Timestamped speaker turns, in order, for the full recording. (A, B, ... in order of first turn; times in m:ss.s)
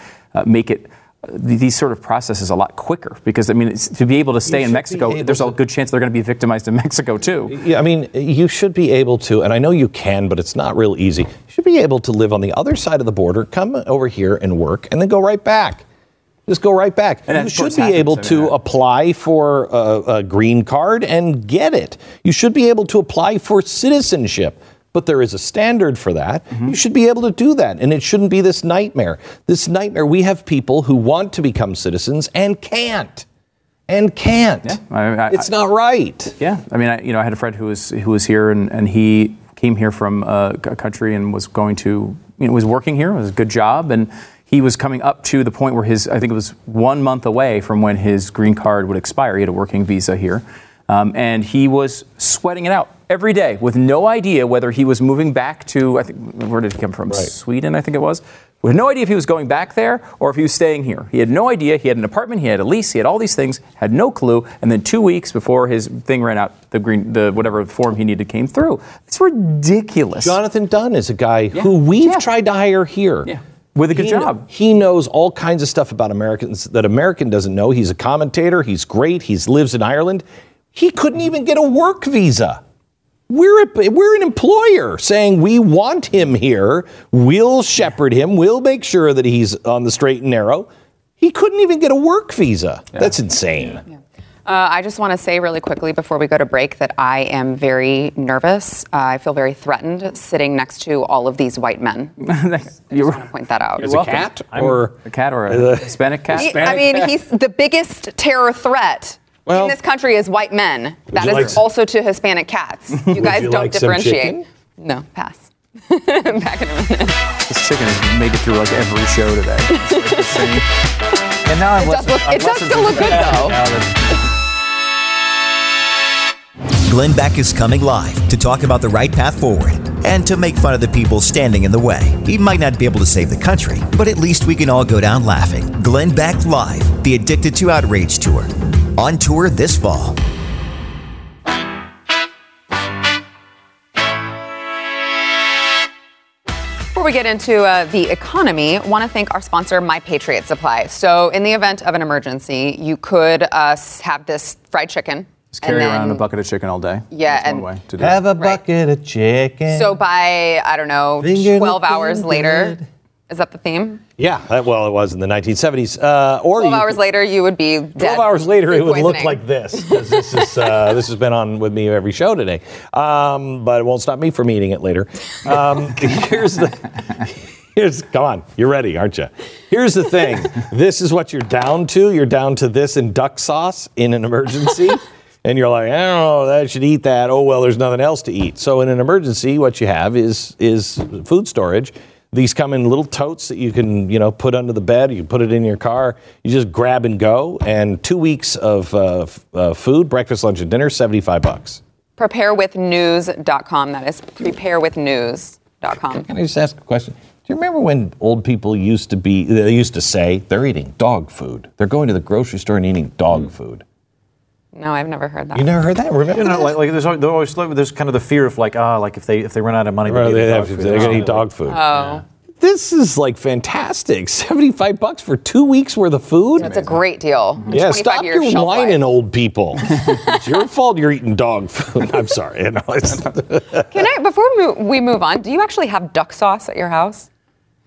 0:00.3-0:07.6 A
0:04.5-0:05.6 B
0:07.5-0:15.8 B
0:16.5-0:33.3 B
0:17.3-0:18.6 A
0:33.9-0:36.4 B
0:34.6-0:35.5 A
0:36.4-1:10.4 A
1:10.2-1:13.3 B
1:11.6-1:12.2 A
1:13.2-1:14.4 A
1:13.9-1:22.6 B
1:23.3-1:30.7 B
1:31.2-1:33.8 B
1:34.5-1:42.2 C
1:42.2-1:43.2 A
1:42.9-1:43.9 C
1:43.8-1:46.7 A
1:43.8-1:47.2 B
1:46.4-1:57.2 C
1:49.5-1:49.8 B
1:51.1-1:51.6 B
1:53.1-1:54.4 B
1:57.5-2:00.6 A
1:59.8-2:00.6 C
2:01.4-2:04.2 D
2:01.8-2:03.6 C
2:06.8-2:20.2 E
2:26.9-2:36.3 C
2:35.6-2:38.2 A
2:37.1-2:37.7 C
2:38.0-2:40.0 B
2:39.7-2:42.8 C
2:41.2-2:42.9 B
2:43.3-2:44.0 C
2:44.2-2:47.0 B
2:46.6-2:50.2 C
2:48.0-3:21.8 B
3:22.2-3:26.3 C
3:26.2-3:33.8 B
3:34.8-3:35.7 C
3:35.5-3:36.8 B
3:36.3-3:42.2 D
3:40.0-3:41.8 B
3:41.7-3:42.2 C
3:42.6-3:46.7 B
3:46.6-3:49.0 C
3:46.6-3:46.9 A
3:47.7-3:54.1 B
3:49.8-3:50.4 C
3:53.9-3:57.3 C